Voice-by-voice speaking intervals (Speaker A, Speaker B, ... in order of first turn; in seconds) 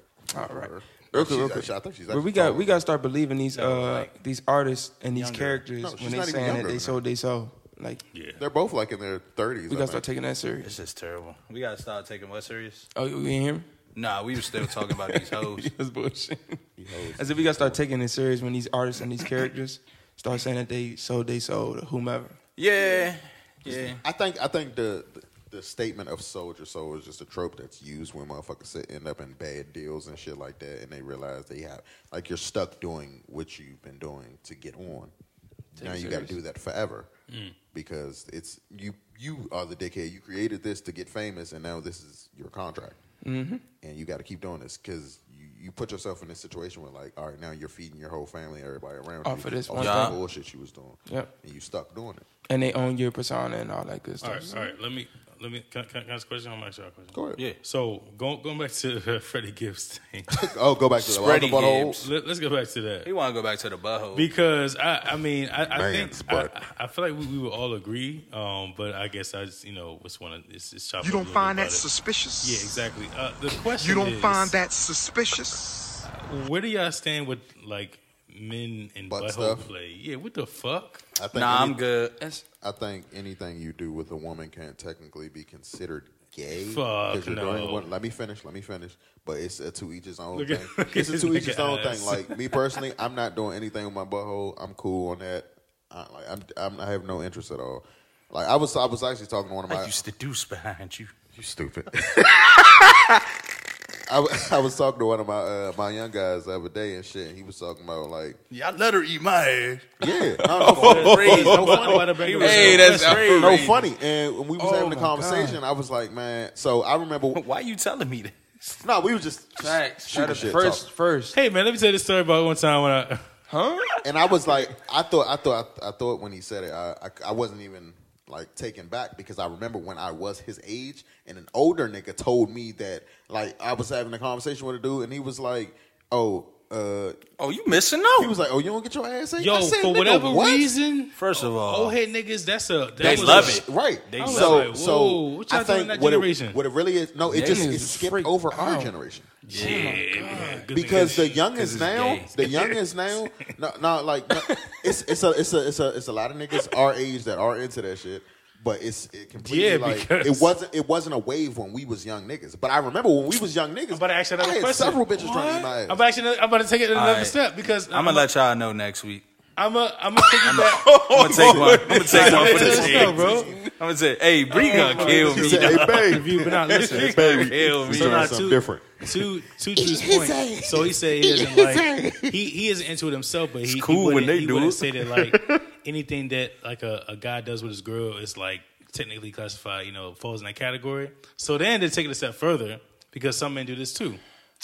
Speaker A: 0.3-8.0, 9.7-10.7, 12.9-13.7, 14.4-16.6, 17.1-22.4, 35.8-36.4, 43.2-43.6, 49.2-50.2, 52.5-54.7, 110.4-111.8, 112.4-113.8, 114.6-115.6, 119.6-121.3, 123.5-124.0, 143.0-143.6, 147.3-148.9, 149.5-150.7, 170.2-173.7, 174.6-175.4
Speaker B: 0.3-2.8, 5.8-7.0, 8.4-10.0, 16.8-17.8, 24.0-35.1, 35.8-37.1, 37.7-43.0, 43.8-52.2, 57.1-57.4, 60.3-62.1, 65.6-66.5, 79.1-79.7, 81.1-81.8, 82.6-100.0, 101.3-103.0, 104.1-108.4, 110.0-112.0, 113.3-117.4, 118.8-120.9, 124.0-137.2, 138.2-140.7, 143.0-149.4, 150.7-166.0, 172.2-173.6, 175.2-179.2, 180.4-180.9, 181.7-182.1
Speaker C: 3.5-4.1, 5.1-5.6, 10.6-12.9, 13.9-15.7, 22.6-24.0, 49.8-50.1, 61.0-62.0, 63.0-64.3, 81.3-82.2, 99.7-101.1, 108.5-109.9, 110.6-113.8, 117.3-118.8, 137.4-138.3, 141.1-141.9, 143.0-144.7, 149.5-150.6, 151.3-152.3, 166.9-167.4, 167.9-169.2, 170.4-176.2, 176.7-178.3, 183.7-184.8
Speaker D: 8.1-8.4, 37.3-37.5, 54.2-60.3, 62.0-63.1, 64.1-71.8, 72.4-74.6, 76.0-81.0, 86.6-87.9, 90.3-92.4, 110.8-113.4, 121.3-123.3, 139.4-143.6, 144.2-146.6, 149.5-151.4, 152.3-152.8, 159.4-160.5, 163.9-168.3, 169.6-171.0, 172.1-173.5, 174.6-194.2
Speaker E: 71.0-72.8, 73.5-75.7